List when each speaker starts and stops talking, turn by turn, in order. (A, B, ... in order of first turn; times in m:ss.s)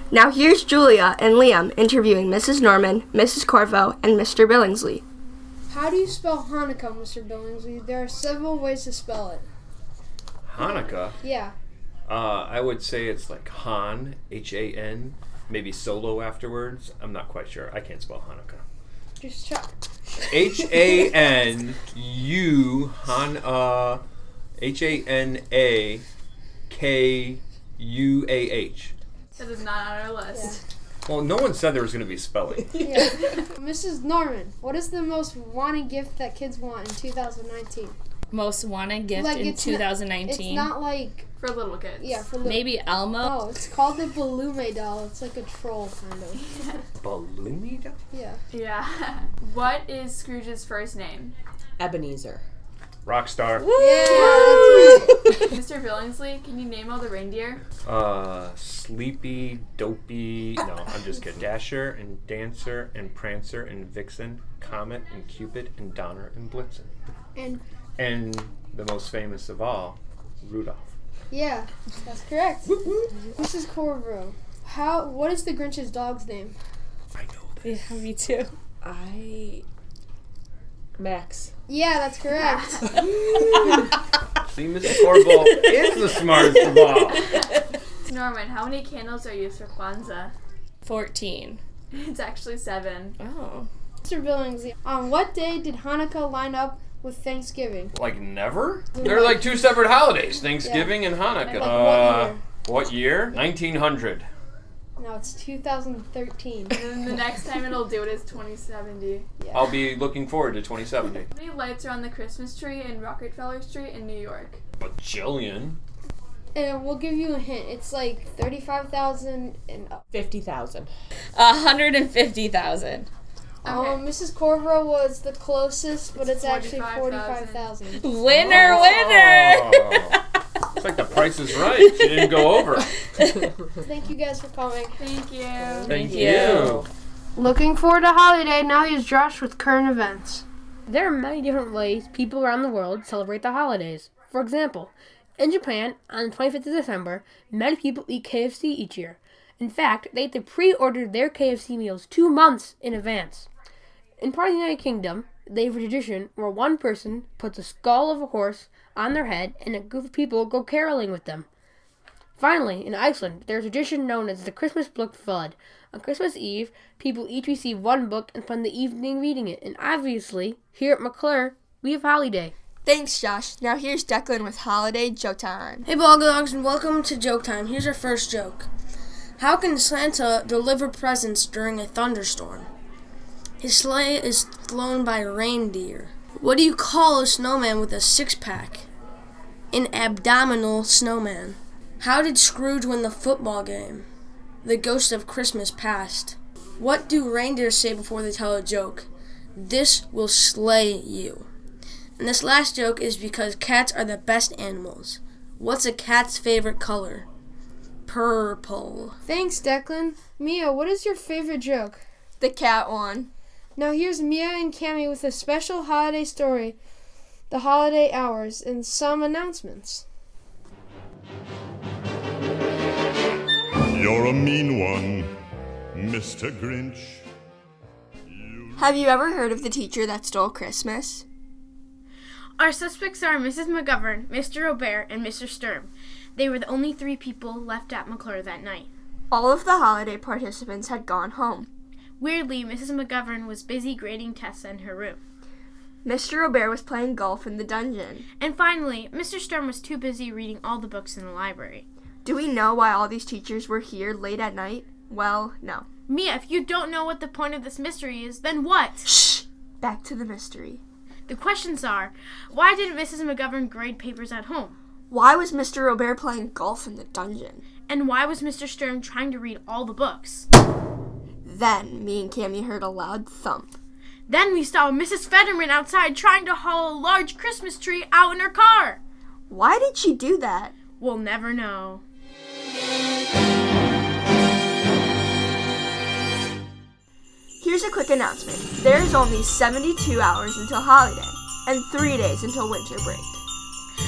0:00.1-0:05.0 A
0:05.7-0:09.5 B
0:10.4-0:11.2 C
0:11.2-0:11.5 B
0:12.1-0:18.6 C
0:19.2-0:19.7 B
0:20.3-0:24.0 C
0:24.6-0:26.0 C
0:26.7-0:28.9 C
0:29.4-0:30.6 D
0:31.0-0:33.1 C
0:32.8-0:38.0 B
0:38.3-0:40.8 E
0:39.2-0:41.2 B
0:41.4-0:42.4 D
0:42.0-0:42.6 B
0:42.3-0:43.5 E
0:43.2-0:46.4 B
0:46.4-0:46.8 D
0:47.0-0:48.0 C
0:48.1-0:48.4 B
0:48.5-0:51.3 D
0:51.8-0:52.4 F
0:53.0-0:53.8 C
0:53.8-0:55.1 B
0:53.8-0:54.1 E
0:54.0-0:57.6 D
0:57.8-1:06.9 C
1:07.4-1:07.6 B
1:08.0-1:10.9 C
1:11.3-1:12.7 B
1:12.7-1:13.1 C
1:13.4-1:16.6 B
1:17.2-1:18.0 C
1:17.6-1:18.5 E
1:18.8-1:19.6 F
1:21.0-1:21.5 F
1:21.7-1:22.7 B
1:22.3-1:22.8 D
1:24.5-1:27.2 C
1:28.0-1:30.3 D
1:30.8-1:31.6 E
1:31.9-1:33.2 D
1:33.2-1:33.7 E
1:34.0-1:37.9 B
1:37.9-1:44.3 C
1:39.0-1:39.4 B
1:40.6-1:40.9 B
1:41.4-1:41.9 D
1:41.7-1:42.4 B
1:45.0-1:46.7 B
1:46.7-1:49.3 D
1:49.5-1:51.3 C
1:51.3-1:54.6 D
1:54.8-1:55.8 C
1:56.5-2:00.0 B
2:00.1-2:00.9 F
2:01.3-2:03.1 E
2:03.6-2:04.1 D
2:03.7-2:07.9 B
2:06.2-2:07.8 D
2:07.9-2:10.0 E
2:08.3-2:10.2 C
2:10.7-2:12.9 C
2:13.8-2:14.9 B
2:15.0-2:16.0 D
2:15.8-2:16.9 C
2:16.0-2:16.9 E
2:17.4-2:20.4 B
2:20.9-2:33.5 G
2:34.2-2:41.5 G
2:42.4-2:52.5 G
2:52.8-2:55.8 A
2:55.9-2:58.7 H
2:59.4-3:02.7 H
3:03.6-3:08.9 H
3:09.7-3:14.1 H
3:14.6-3:21.5 H
3:22.2-3:27.2 H
3:28.0-3:29.2 H
3:29.2-3:32.0 B
3:32.4-3:33.3 A
3:33.8-3:36.8 B
3:37.5-3:40.0 B
3:43.9-3:45.3 I
3:45.9-3:47.2 I
3:48.8-3:51.2 A
3:52.6-3:58.9 J
3:59.3-4:01.7 A
4:02.2-4:05.2 J
4:06.0-4:08.2 A
4:08.4-4:11.8 J
4:12.2-4:15.8 A
4:16.1-4:19.1 J
4:19.0-4:20.8 A
4:21.3-4:24.8 J
4:25.1-4:27.6 A
4:27.9-4:30.5 J
4:31.4-4:33.7 A
4:34.3-4:39.0 J
4:39.5-4:40.7 A
4:41.0-4:42.0 J
4:47.6-4:53.4 A